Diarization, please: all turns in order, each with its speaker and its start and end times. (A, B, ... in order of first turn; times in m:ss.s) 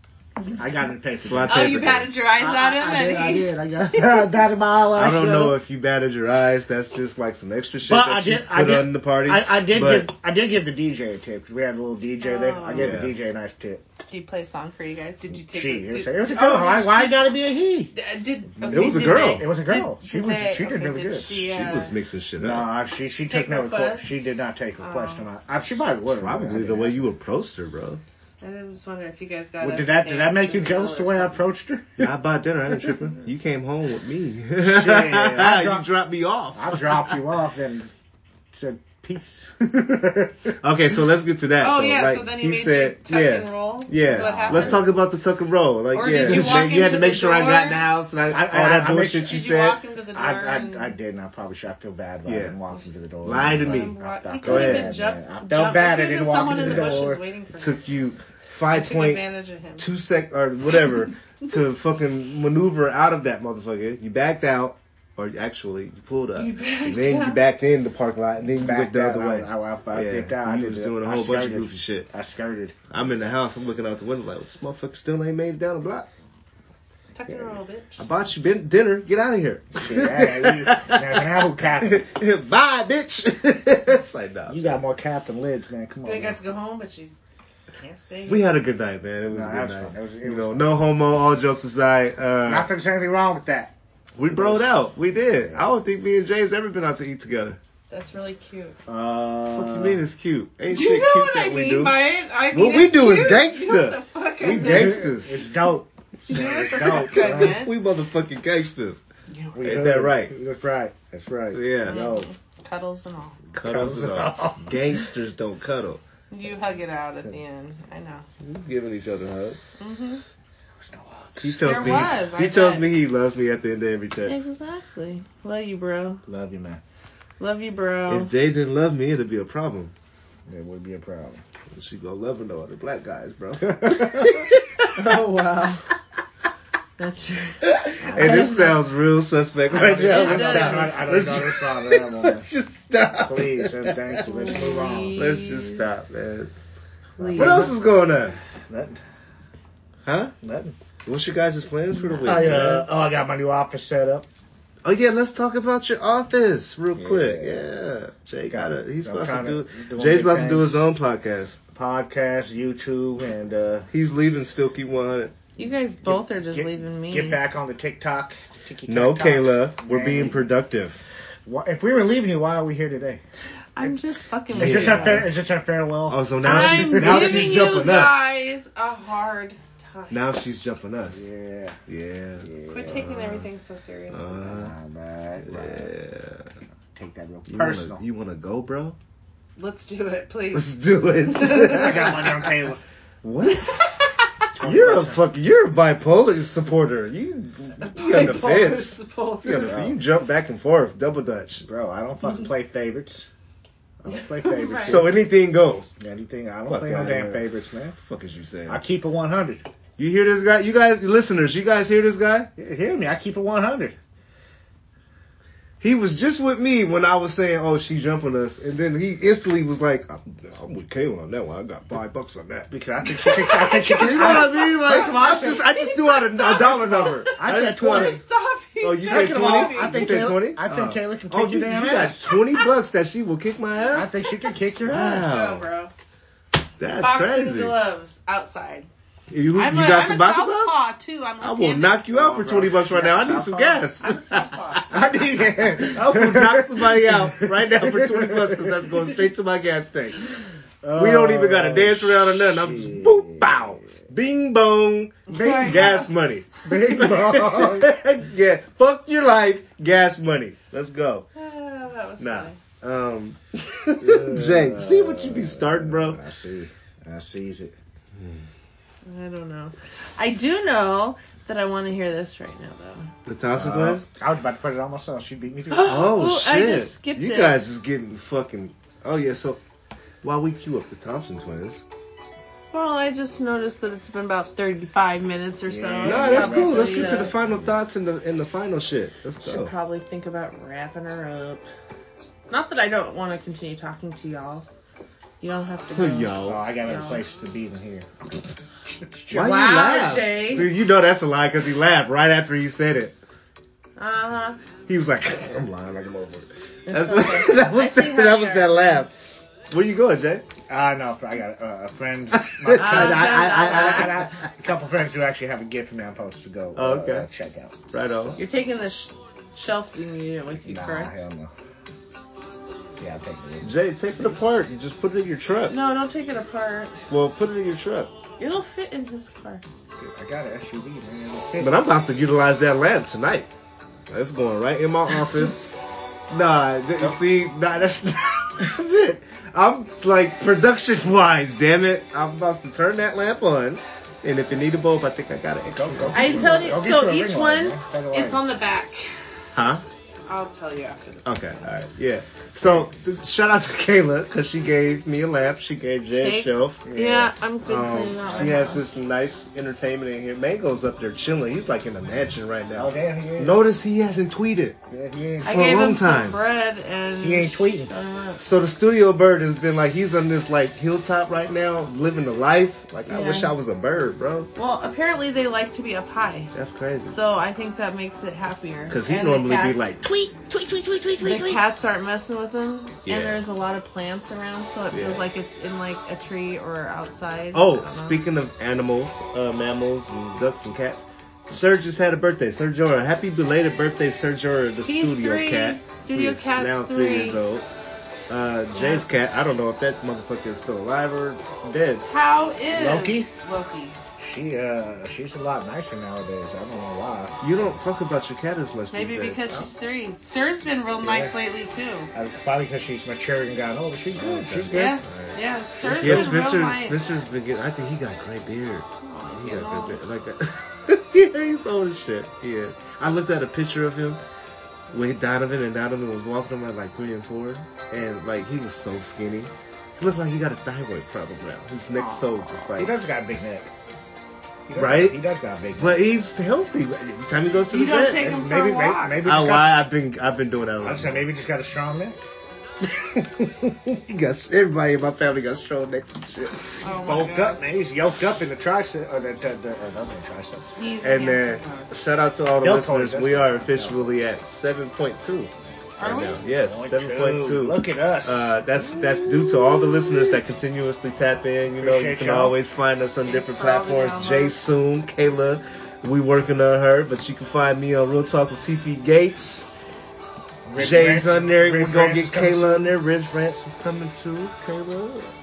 0:00.5-0:01.8 A
0:01.2-0:02.1 B
0:01.4-0:04.3 C
0:02.4-0:05.6 A
0:05.0-0:10.1 B
0:07.8-0:13.8 A
0:12.2-0:13.0 C
0:12.7-0:13.1 B
0:14.1-0:17.4 C
0:15.4-0:17.9 A
0:17.9-0:21.9 C
0:18.6-0:21.5 A
0:18.6-0:19.5 B
0:21.4-0:22.7 B
0:22.4-0:27.0 A
0:23.3-0:25.2 C
0:26.1-0:28.0 B
0:28.4-0:31.4 C
0:29.6-0:32.1 A
0:32.0-0:37.2 B
0:34.6-0:35.9 A
0:36.5-0:37.9 A
0:38.5-0:40.6 A
0:40.6-0:49.8 B
0:41.6-0:44.9 C
0:44.0-0:44.9 A
0:45.9-0:47.8 C
0:46.2-0:46.6 A
0:48.3-0:49.4 A
0:49.2-0:50.9 C
0:50.1-0:57.2 A
0:52.2-0:52.6 B
0:53.2-0:54.9 B
0:53.4-0:57.8 C
0:56.5-0:59.2 B
0:58.7-0:59.9 C
0:59.8-1:12.1 B
1:06.4-1:07.4 C
1:08.6-1:12.8 A
1:12.9-1:16.1 B
1:17.1-1:18.0 C
1:18.0-1:24.8 B
1:19.8-1:22.1 A
1:24.5-1:26.4 A
1:26.0-1:27.1 C
1:27.7-1:28.6 C
1:28.3-1:32.7 B
1:29.3-1:30.8 A
1:32.4-1:33.7 A
1:34.2-1:37.6 B
1:34.2-1:34.8 A
1:35.4-1:35.7 A
1:37.9-1:38.8 C
1:38.9-1:40.0 A
1:39.5-1:42.0 B
1:40.7-1:45.1 C
1:42.5-1:45.5 B
1:44.4-1:47.6 A
1:46.3-1:47.7 C
1:46.7-1:49.0 B
1:49.3-1:49.8 C
1:49.5-1:52.3 A
1:49.6-1:50.3 B
1:51.5-1:52.0 B
1:51.8-1:53.4 C
1:53.5-1:56.0 B
1:53.5-1:55.0 A
1:56.3-1:58.2 C
1:58.4-1:59.7 B
1:59.8-2:00.2 C
2:00.8-2:02.1 A
2:01.4-2:04.4 B
2:01.6-2:02.9 C
2:04.2-2:06.2 C
2:06.2-2:06.8 A
2:07.4-2:08.3 C
2:08.1-2:09.9 B
2:10.5-2:11.4 A
2:11.7-2:14.9 B
2:13.6-2:14.3 A
2:14.9-2:15.9 C
2:17.0-2:18.8 C
2:17.6-2:24.2 B
2:18.0-2:18.6 A
2:19.7-2:22.6 A
2:20.1-2:21.2 C
2:23.2-2:25.2 A
2:24.2-2:25.9 C
2:25.1-2:26.5 B
2:27.2-2:27.7 C
2:27.2-2:28.1 A
2:27.4-2:28.4 B
2:28.7-2:29.0 A
2:30.0-2:30.3 B
2:30.4-2:30.8 A
2:31.1-2:32.9 B
2:31.9-2:32.6 C
2:32.2-2:34.2 A
2:34.8-2:41.6 B
2:37.0-2:37.7 A
2:38.5-2:40.8 A
2:41.7-2:43.9 A
2:43.9-2:45.4 B
2:45.6-2:47.4 C
2:46.0-2:50.4 A
2:48.9-2:51.0 B
2:51.4-2:53.2 A
2:53.8-2:55.2 C
2:54.5-2:57.6 A
2:54.5-2:55.3 B
2:56.1-2:58.2 B
2:56.4-3:00.2 C
3:00.1-3:01.2 B
3:01.1-3:01.8 A
3:01.9-3:03.5 B
3:02.4-3:03.0 A
3:02.7-3:04.7 C
3:04.1-3:04.7 B
3:04.5-3:05.9 A
3:05.4-3:06.5 B
3:06.9-3:08.0 A
3:07.5-3:09.0 B
3:09.6-3:12.5 C
3:10.5-3:12.4 B
3:11.4-3:12.8 A
3:13.2-3:13.9 B
3:13.5-3:14.3 C
3:14.5-3:15.2 A
3:14.6-3:21.6 B
3:17.9-3:19.8 C
3:19.6-3:20.0 A
3:21.6-3:23.3 A
3:24.0-3:25.1 A
3:24.4-3:25.1 C
3:24.8-3:25.9 B
3:26.0-3:28.0 A
3:26.6-3:27.4 B
3:28.0-3:28.8 B
3:28.7-3:29.6 A
3:30.0-3:32.5 B
3:32.6-3:34.0 A
3:35.8-3:42.7 B
3:42.7-3:45.6 A
3:43.2-3:48.2 B
3:43.3-3:50.2 C
3:46.4-3:48.2 A
3:48.8-3:54.1 B
3:49.1-3:52.3 A
3:53.9-3:55.2 A
3:54.8-3:55.6 B
3:55.0-3:55.9 C
3:56.8-3:57.8 B
3:56.9-3:58.9 C
3:59.3-4:00.8 B
3:59.5-4:02.0 C
4:01.4-4:04.9 B
4:02.1-4:03.9 A
4:04.0-4:05.2 C
4:04.9-4:09.2 A
4:05.8-4:10.3 B
4:10.8-4:13.9 A
4:10.9-4:21.3 B
4:15.3-4:16.1 C
4:15.3-4:16.0 A
4:16.6-4:18.0 A
4:21.4-4:22.6 C
4:22.2-4:26.2 B
4:24.0-4:27.8 A
4:28.1-4:28.5 B
4:29.0-4:33.1 C
4:33.2-4:34.1 B
4:33.5-4:36.1 A
4:35.7-4:37.6 C
4:35.8-4:39.6 B
4:40.2-4:41.8 B
4:42.7-4:47.3 C
4:45.7-4:47.4 A
4:46.0-4:49.7 B
4:49.4-4:51.7 C
4:52.5-4:54.7 C
4:55.4-4:57.2 C
4:55.9-4:56.6 B
4:56.4-4:58.4 A
4:59.0-4:59.6 A
4:59.3-5:03.1 B
4:59.3-5:00.7 C
5:04.0-5:04.6 C
5:04.9-5:09.1 B
5:06.9-5:09.1 C
5:09.7-5:10.5 B
5:10.7-5:17.8 A
5:12.5-5:14.0 B
5:12.7-5:14.1 C
5:16.8-5:17.3 B
5:17.9-5:18.4 B
5:18.4-5:21.1 C
5:20.6-5:21.5 A
5:23.0-5:23.8 A
5:23.6-5:25.8 B
5:25.7-5:27.0 C
5:27.1-5:28.1 B
5:28.4-5:29.6 C
5:30.0-5:31.8 A
5:31.6-5:33.5 B
5:34.1-5:35.6 B
5:36.3-5:46.7 B
5:45.7-5:48.4 A
5:46.1-5:49.1 C
5:49.5-5:49.8 B
5:50.3-5:51.4 C
5:51.2-5:56.8 B
5:56.1-5:58.8 C
5:56.8-5:57.4 A
5:57.6-6:04.8 B
5:58.2-5:58.8 A
6:02.8-6:03.6 A
6:04.9-6:05.8 A
6:05.4-6:08.4 C
6:05.4-6:06.4 B
6:07.2-6:07.9 A
6:08.4-6:14.5 B
6:13.1-6:13.5 C
6:14.5-6:16.5 C
6:16.5-6:17.2 B
6:17.0-6:19.9 C
6:18.9-6:21.6 B
6:21.2-6:28.2 C
6:23.0-6:23.4 B
6:24.9-6:25.2 B
6:27.5-6:37.7 B
6:34.8-6:37.4 C
6:38.3-6:42.1 B
6:38.7-6:39.0 C
6:42.1-6:44.0 C
6:42.7-6:43.3 A
6:44.2-6:47.6 A
6:47.4-6:49.7 B
6:48.9-6:52.1 C
6:51.0-6:51.4 A
6:52.1-6:55.0 A
6:54.1-7:04.2 B
6:54.7-6:57.2 C
6:55.8-6:56.3 A
6:59.0-7:00.0 C
7:04.9-7:13.0 B
7:12.0-7:13.7 A
7:14.7-7:16.0 A
7:14.8-7:15.2 B
7:15.8-7:18.4 B
7:17.6-7:19.3 C
7:18.1-7:19.9 A
7:19.2-7:21.3 B
7:20.8-7:22.2 A
7:22.8-7:26.8 B
7:26.8-7:27.6 C
7:26.9-7:30.7 A
7:30.8-7:31.9 C
7:31.0-7:49.7 B
7:32.6-7:34.2 A
7:36.0-7:36.4 C
7:36.1-7:38.5 A
7:38.8-7:40.4 C
7:41.8-7:42.6 A
7:43.2-7:44.6 C
7:50.7-7:52.9 A
7:50.8-7:55.4 B